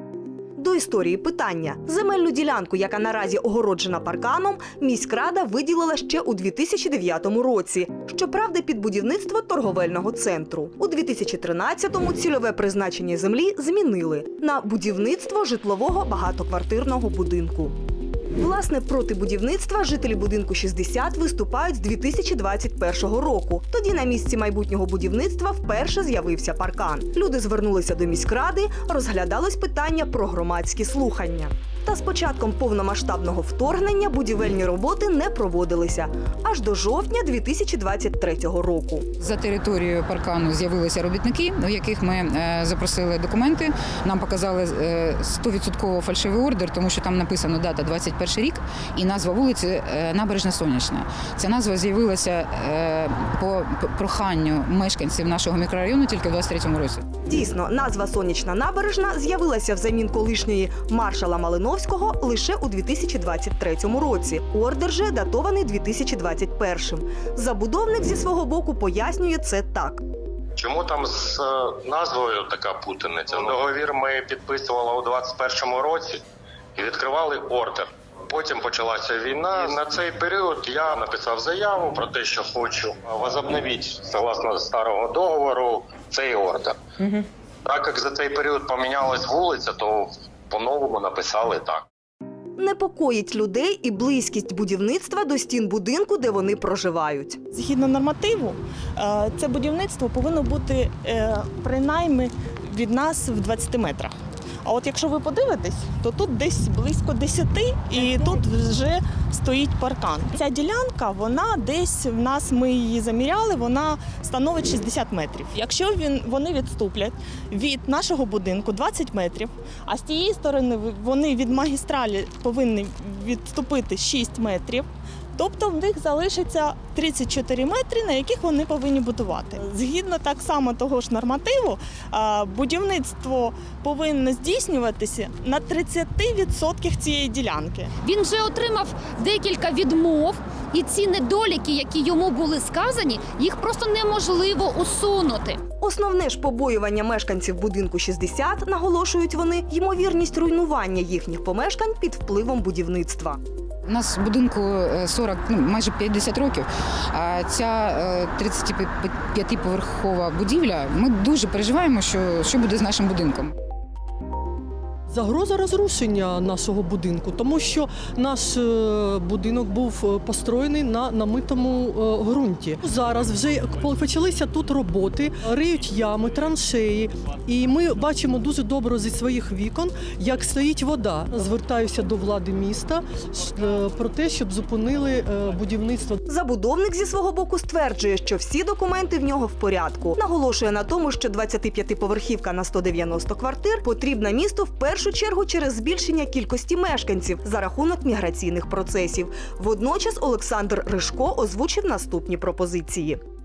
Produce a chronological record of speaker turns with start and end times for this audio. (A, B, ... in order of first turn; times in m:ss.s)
0:00.6-0:17.8 A
0:18.4-0:39.0 A
0:39.2-0:57.0 B
0:57.2-1:10.0 A
1:10.6-1:16.2 C
1:16.8-1:26.8 C
1:27.6-1:31.8 C
1:32.6-1:37.4 A
1:37.5-2:17.9 D
2:18.0-2:25.6 E
2:25.8-2:33.4 A
2:33.8-2:43.5 B
2:45.1-3:06.2 F
3:06.3-3:23.2 A